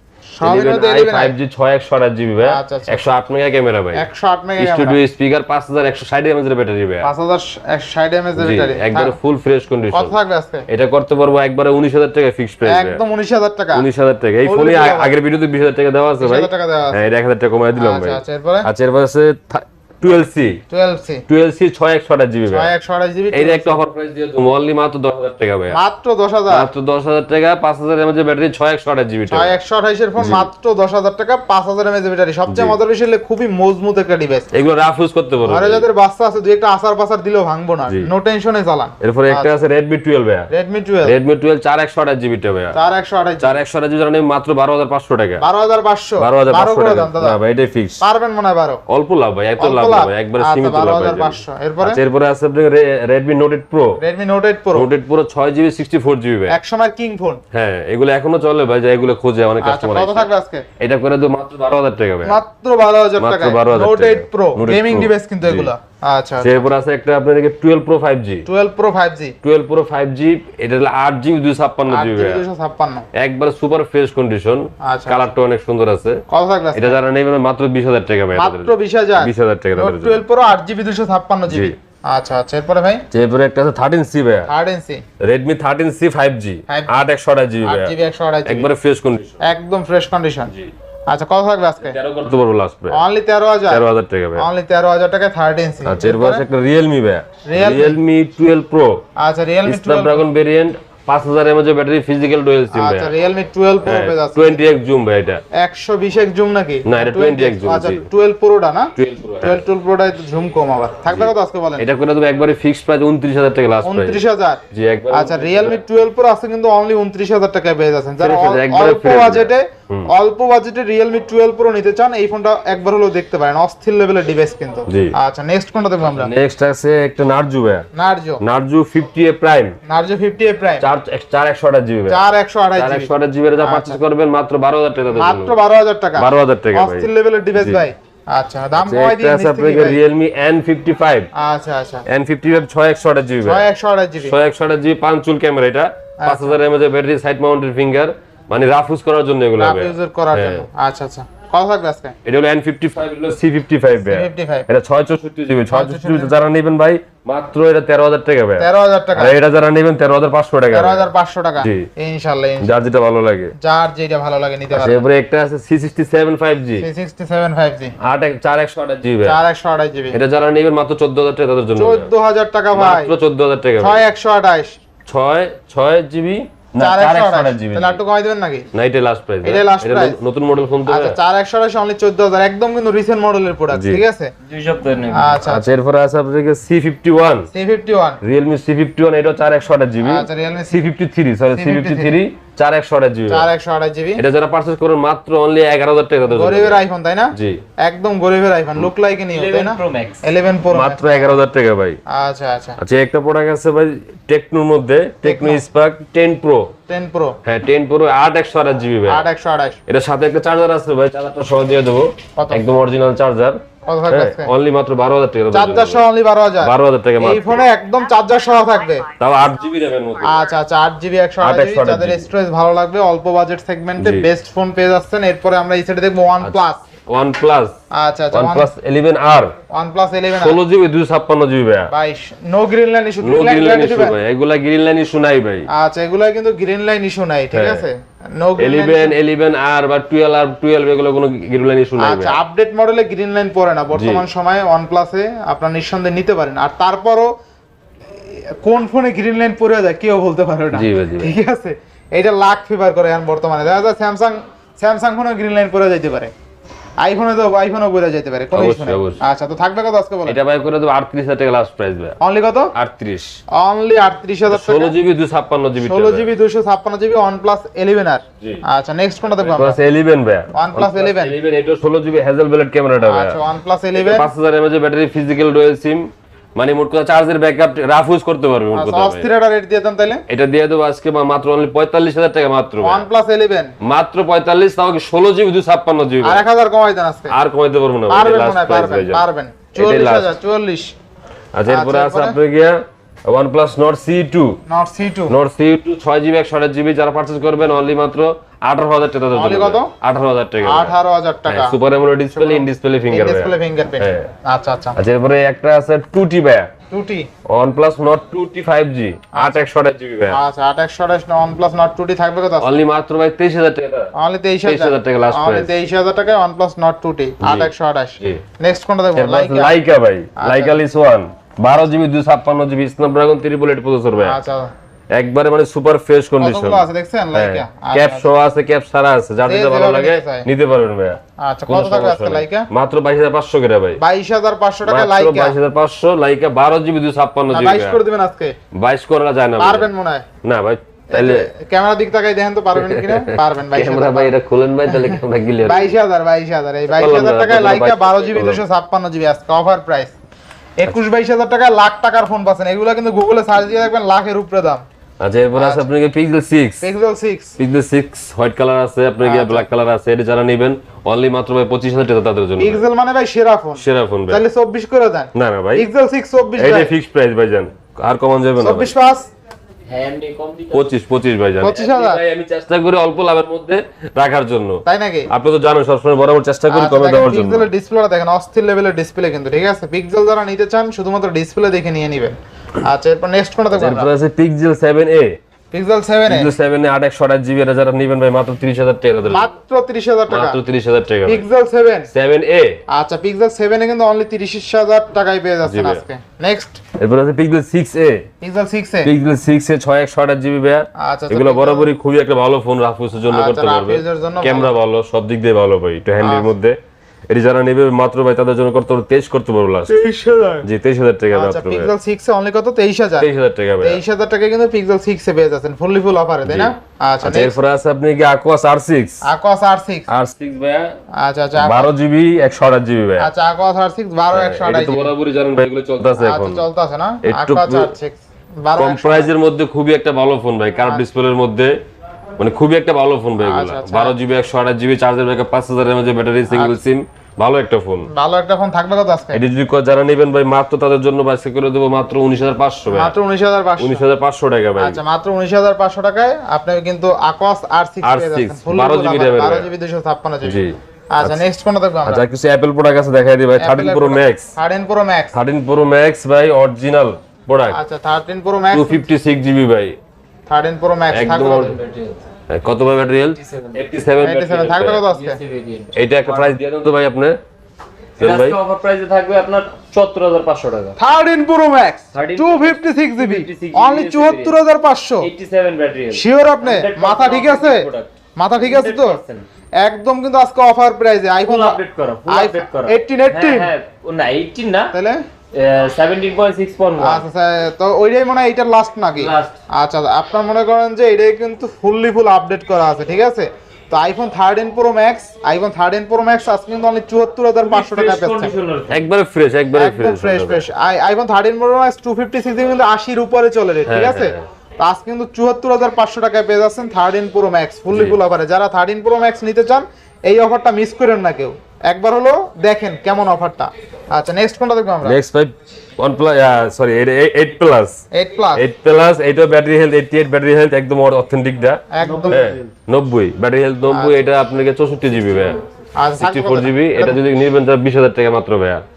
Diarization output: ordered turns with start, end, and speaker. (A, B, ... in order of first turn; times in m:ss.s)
0:00.4-0:01.4 A
0:00.4-0:04.1 B
0:02.4-0:03.1 A
0:04.0-0:05.0 A
0:04.6-0:07.1 B
0:07.0-0:09.2 A
0:08.4-0:10.2 B
0:09.9-0:10.6 A
0:10.7-0:13.0 B
0:12.6-0:13.9 A
0:13.7-0:20.6 B
0:14.4-0:15.2 A
0:16.2-0:17.1 A
0:17.7-0:18.7 A
0:20.7-0:21.2 A
0:21.3-0:22.7 B
0:22.5-0:23.8 A
0:23.3-0:25.8 B
0:25.7-0:26.7 A
0:26.5-0:29.5 B
0:29.3-0:34.5 A
0:30.2-0:30.5 B
0:32.5-0:32.8 B
0:34.5-0:35.9 B
0:35.4-0:39.6 A
0:39.0-0:40.5 B
0:40.5-0:41.2 A
0:41.0-0:42.8 B
0:42.7-0:43.6 A
0:43.4-0:45.4 B
0:45.4-0:47.4 A
0:46.2-0:48.0 B
0:48.0-0:48.8 A
0:48.9-0:54.0 B
0:49.6-0:52.0 A
0:54.0-0:54.9 A
0:54.8-0:56.6 B
0:56.5-0:57.4 A
0:57.5-1:00.3 B
0:59.6-1:00.7 A
1:00.8-1:02.4 B
1:02.2-1:06.7 A
1:03.2-1:05.7 B
1:06.4-1:08.5 B
1:08.5-1:09.4 A
1:09.4-1:12.4 B
1:11.9-1:13.1 A
1:13.2-1:16.2 B
1:14.8-1:15.3 A
1:16.3-1:17.0 A
1:16.8-1:20.2 B
1:18.3-1:23.0 A
1:21.5-1:21.8 B
1:23.1-1:24.5 B
1:24.5-1:25.0 A
1:25.2-1:27.9 B
1:27.6-1:28.7 A
1:28.4-1:29.4 B
1:29.4-1:30.5 A
1:31.1-1:32.0 A
1:31.8-1:33.0 B
1:32.9-1:36.4 A
1:33.7-1:34.5 B
1:35.8-1:39.1 B
1:37.4-1:38.0 A
1:39.2-1:40.2 A
1:39.7-1:43.1 B
1:42.7-1:44.6 A
1:43.8-1:45.4 B
1:45.5-1:51.9 A
1:46.8-1:48.1 B
1:49.0-1:49.6 B
1:51.1-1:55.8 B
1:53.8-2:06.3 A
1:58.2-2:00.1 B
2:04.9-2:05.1 B
2:06.1-2:07.9 B
2:07.9-2:08.4 A
2:08.4-2:09.8 B
2:09.8-2:10.8 A
2:10.8-2:12.2 B
2:12.1-2:14.0 A
2:12.8-2:15.6 B
2:15.2-2:20.0 A
2:16.2-2:17.8 B
2:18.8-2:21.3 B
2:21.3-2:22.1 A
2:22.1-2:23.6 B
2:23.4-2:24.4 A
2:24.2-2:30.6 B
2:26.2-2:26.6 A
2:29.6-2:32.2 A
2:32.2-2:41.1 B
2:34.1-2:34.7 A
2:35.7-2:36.4 A
2:38.6-2:39.4 A
2:40.7-2:42.7 A
2:41.6-2:41.9 B
2:42.6-2:43.5 B
2:43.6-2:45.0 A
2:44.7-2:46.9 B
2:46.8-2:48.0 A
2:48.0-2:49.4 B
2:49.2-2:50.2 A
2:50.1-2:52.1 B
2:51.8-2:53.1 A
2:52.7-2:54.0 B
2:53.8-2:54.8 A
2:55.1-2:58.0 B
2:56.8-2:58.7 A
2:58.7-3:01.2 B
2:59.4-3:00.2 A
3:00.9-3:04.3 A
3:03.7-3:04.0 B
3:04.5-3:05.4 C
3:05.1-3:05.7 A
3:05.5-3:07.5 B
3:07.5-3:08.2 A
3:08.2-3:13.5 B
3:10.0-3:10.8 A
3:11.6-3:12.2 A
3:13.3-3:14.2 A
3:14.2-3:16.8 B
3:16.3-3:21.4 A
3:17.3-3:17.6 B
3:19.3-3:20.2 C
3:20.7-3:22.0 B
3:22.1-3:22.8 A
3:22.8-3:26.7 B
3:25.2-3:25.6 A
3:26.9-3:27.4 A
3:27.4-3:29.3 B
3:29.1-3:29.8 A
3:29.9-3:36.0 B
3:32.4-3:32.7 A
3:33.8-3:34.5 A
3:35.5-3:39.1 A
3:36.6-3:37.7 B
3:39.2-3:40.4 B
3:40.2-3:46.8 A
3:41.4-3:42.3 B
3:44.0-3:44.3 B
3:46.4-3:47.8 B
3:47.9-3:48.7 A
3:48.3-3:49.6 B
3:49.7-3:50.6 A
3:50.4-3:51.9 B
3:51.9-3:54.2 A
3:53.2-3:55.7 B
3:55.7-3:59.2 A
3:57.5-3:57.9 B
3:58.6-4:02.4 B
4:02.0-4:07.3 A
4:03.9-4:04.2 B
4:08.2-4:16.3 A
4:10.7-4:11.3 B
4:17.0-4:20.4 A
4:18.5-4:19.2 B
4:20.3-4:22.2 B
4:22.2-4:22.7 A
4:22.7-4:23.4 B
4:23.5-4:25.0 A
4:24.5-4:26.3 B
4:25.8-4:29.8 A
4:29.4-4:33.4 B
4:30.5-4:31.4 A
4:33.0-4:34.3 A
4:34.0-4:39.3 B
4:38.7-4:40.2 A
4:40.3-4:43.0 B
4:42.8-4:43.7 A
4:43.8-4:46.4 B
4:46.2-4:47.4 A
4:47.3-4:50.3 B
4:48.1-4:51.0 A
4:51.5-4:54.6 B
4:51.7-4:52.4 A
4:54.7-4:55.4 A
4:55.3-5:01.0 B
4:59.3-4:59.9 A
5:00.6-5:01.8 A
5:01.5-5:04.3 B
5:02.3-5:05.0 A
5:05.0-5:06.7 B
5:06.9-5:07.3 A
5:07.5-5:10.4 B
5:09.3-5:09.6 A
5:10.3-5:12.7 A
5:12.6-5:14.1 B
5:14.2-5:19.8 A
5:14.6-5:15.7 B
5:17.4-5:18.4 B
5:19.2-5:24.4 B
5:20.4-5:20.8 A
5:24.2-5:24.7 A
5:25.1-5:34.0 B
5:26.4-5:28.3 A
5:29.4-5:30.5 A
5:31.4-5:32.7 A
5:34.0-5:35.6 A
5:34.9-5:38.0 B
5:37.5-5:38.6 A
5:38.7-5:39.9 B
5:39.6-5:40.3 A
5:40.4-5:41.5 B
5:41.1-5:44.3 A
5:42.8-5:46.0 B
5:44.9-5:50.1 A
5:46.9-5:48.6 B
5:50.8-5:54.8 A
5:55.2-5:56.9 B
5:55.6-5:55.9 A
5:56.8-5:57.5 A
5:57.6-6:02.8 B
5:59.2-5:59.7 A
6:02.6-6:06.9 A
6:03.8-6:04.4 B
6:05.3-6:05.9 B
6:06.6-6:08.9 B
6:08.6-6:09.3 A
6:09.9-6:10.9 C
6:10.7-6:17.7 B
6:11.6-6:12.2 A
6:14.9-6:15.3 A
6:16.7-6:24.1 A
6:23.7-6:25.4 B
6:25.7-6:26.5 A
6:26.3-6:29.5 B
6:29.3-6:30.6 A
6:30.3-6:31.4 B
6:31.2-6:32.1 A
6:32.1-6:32.8 B
6:32.9-6:36.8 A
6:35.6-6:36.0 B
6:37.0-6:38.3 B
6:38.4-6:39.1 A
6:39.0-6:46.8 B
6:41.0-6:41.9 A
6:43.3-6:44.7 A
6:46.2-6:46.5 A
6:47.3-6:50.0 B
6:49.9-6:50.7 A
6:50.6-6:51.9 B
6:51.3-6:57.5 A
6:53.2-6:54.0 B
6:56.5-6:59.2 B
6:59.3-7:00.1 A
7:00.1-7:01.0 B
7:01.2-7:01.9 A
7:01.6-7:03.3 B
7:03.2-7:05.1 A
7:04.3-7:06.6 B
7:06.2-7:09.3 A
7:07.2-7:07.9 B
7:08.8-7:11.8 B
7:10.8-7:11.0 A
7:12.4-7:18.1 B
7:13.4-7:14.2 A
7:16.5-7:16.8 A
7:18.1-7:19.4 A
7:19.3-7:23.2 B
7:22.9-7:24.0 A
7:23.8-7:25.0 B
7:24.8-7:32.2 A
7:28.0-7:29.7 B
7:30.4-7:31.4 B
7:32.1-7:34.6 B
7:33.6-7:35.4 A
7:35.3-7:37.8 B
7:37.7-7:39.0 A
7:38.7-7:40.0 B
7:40.5-7:41.8 A
7:41.1-7:41.7 B
7:41.4-7:42.2 C
7:42.5-7:45.0 B
7:43.4-7:43.8 C
7:44.2-7:45.4 A
7:45.1-7:46.5 C
7:45.9-7:47.4 B
7:48.2-7:48.6 B
7:48.2-7:51.0 C
7:51.0-7:55.3 A
7:52.2-7:54.6 C
7:55.2-7:59.5 C
7:56.1-7:57.9 A
7:58.4-7:59.2 A
7:59.8-8:03.7 A
8:01.4-8:04.9 C
8:04.9-8:05.2 A
8:05.5-8:07.2 C
8:07.0-8:18.5 A
8:09.2-8:09.6 C
8:17.6-8:19.0 C
8:18.9-8:20.7 B
8:19.7-8:35.2 A
8:23.9-8:24.4 B
8:27.9-8:28.2 B
8:35.0-8:38.0 B
8:38.1-8:38.7 A
8:38.6-8:45.6 B
8:41.9-8:42.5 A
8:42.0-8:42.7 C
8:43.9-8:44.3 A
8:46.0-8:47.2 A
8:46.2-8:48.8 B